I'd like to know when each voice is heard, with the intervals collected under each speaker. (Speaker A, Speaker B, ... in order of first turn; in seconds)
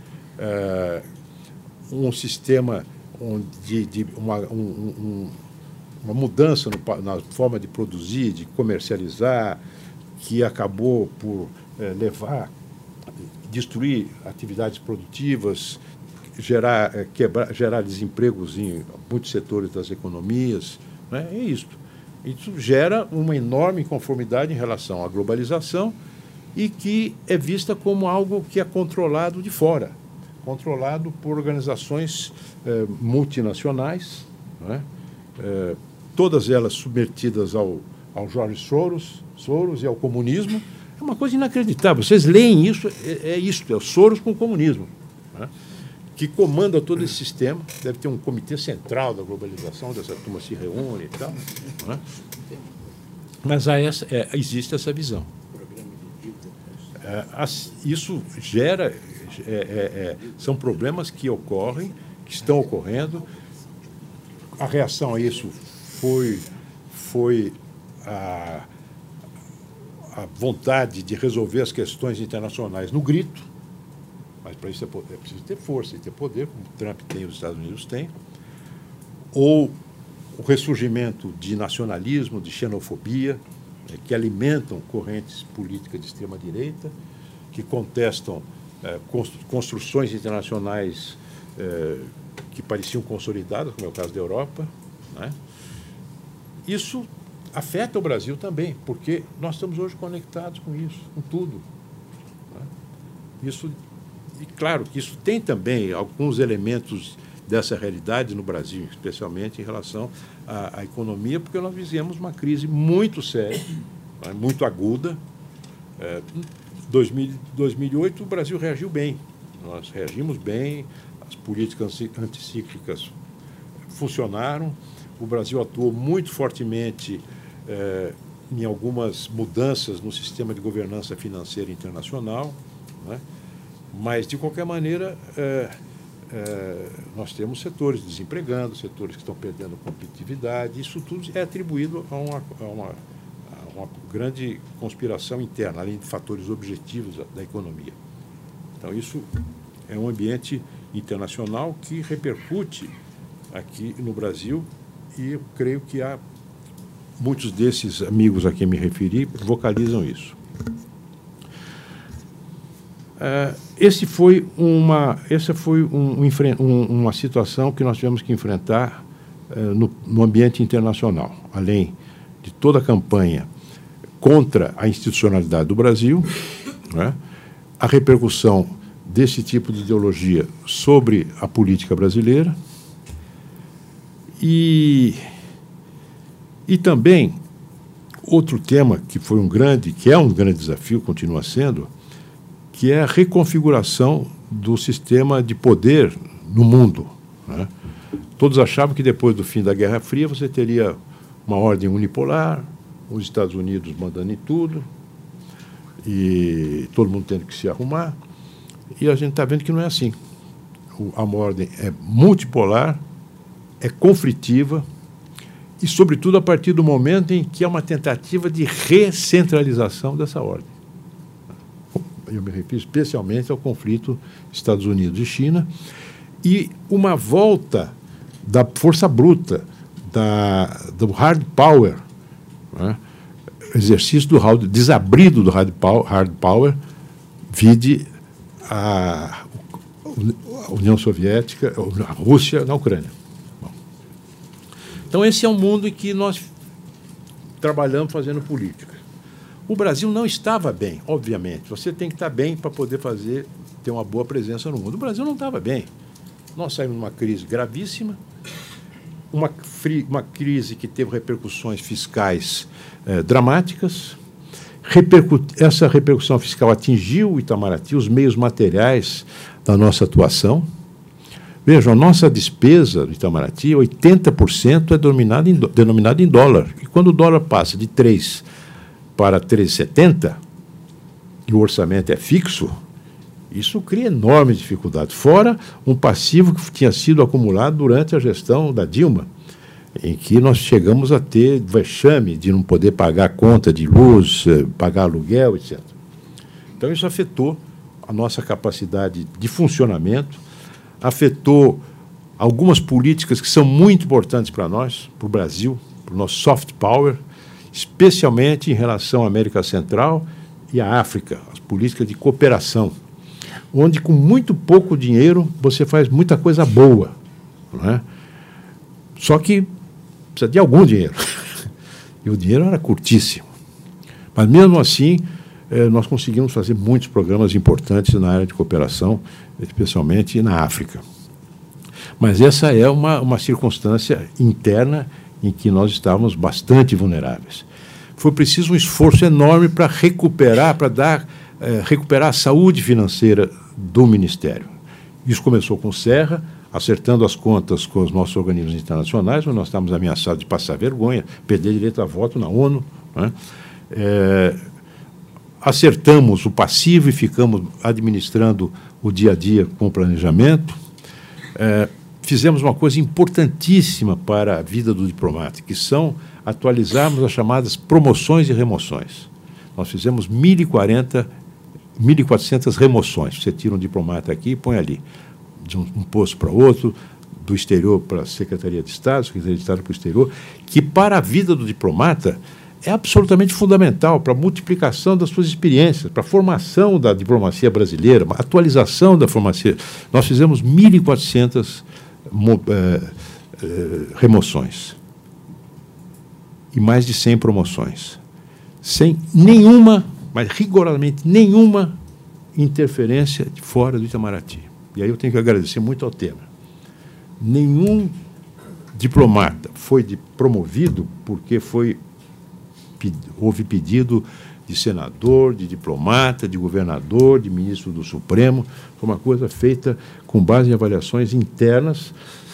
Speaker A: 0.4-1.0, 1.9-5.4, 6.0-9.6, 10.2-12.5, 13.1-15.8, 16.4-26.0, 26.5-34.9, 35.4-45.5, 46.1-52.0, 53.4-56.3, 57.0-63.3, 64.6-68.7, 70.1-73.5, 74.4-78.1, 79.3-79.8, 80.3-86.9, 87.5-95.4, 96.6-101.6, 103.4-103.8, 104.3-115.2, 116.0-123.1, 123.9-133.2, 133.9-135.7, 136.3-148.0, 148.8-149.3, 149.9-152.9, 153.5-156.2, 157.2-160.4, 163.2-173.5, 174.2-177.2, 177.8-182.6, 184.4-185.2, 186.7-187.4, 188.2-191.9, 192.7-197.7, 198.4-204.9, 206.0-208.2, 208.9-210.2, 210.9-213.0, 213.8-214.8, 215.8-220.7, 221.9-225.7, 226.4-232.0, 232.7-233.0, 233.6-236.8, 237.5-238.1, 238.6-243.7, 245.1-246.5, 247.6-249.0, 249.7-255.9, 256.5-258.2, 259.3-264.2, 264.8-270.7, 271.6-278.4, 279.1-280.4, 281.5-282.8, 283.5-289.3, 289.9-295.9, 296.8-300.4, 301.0-301.8, 302.4-313.0, 313.7-317.1, 317.7-318.0, 319.2-319.7, 320.3-321.7, 322.2-323.4, 324.3-331.0, 332.2-353.3, 353.9-354.6, 355.6-360.8, 361.5-371.3, 372.0-375.0, 375.6-395.0, 396.7-398.2, 398.8-402.0, 402.5-406.5, 407.4-408.2, 408.9-412.0, 413.0-422.1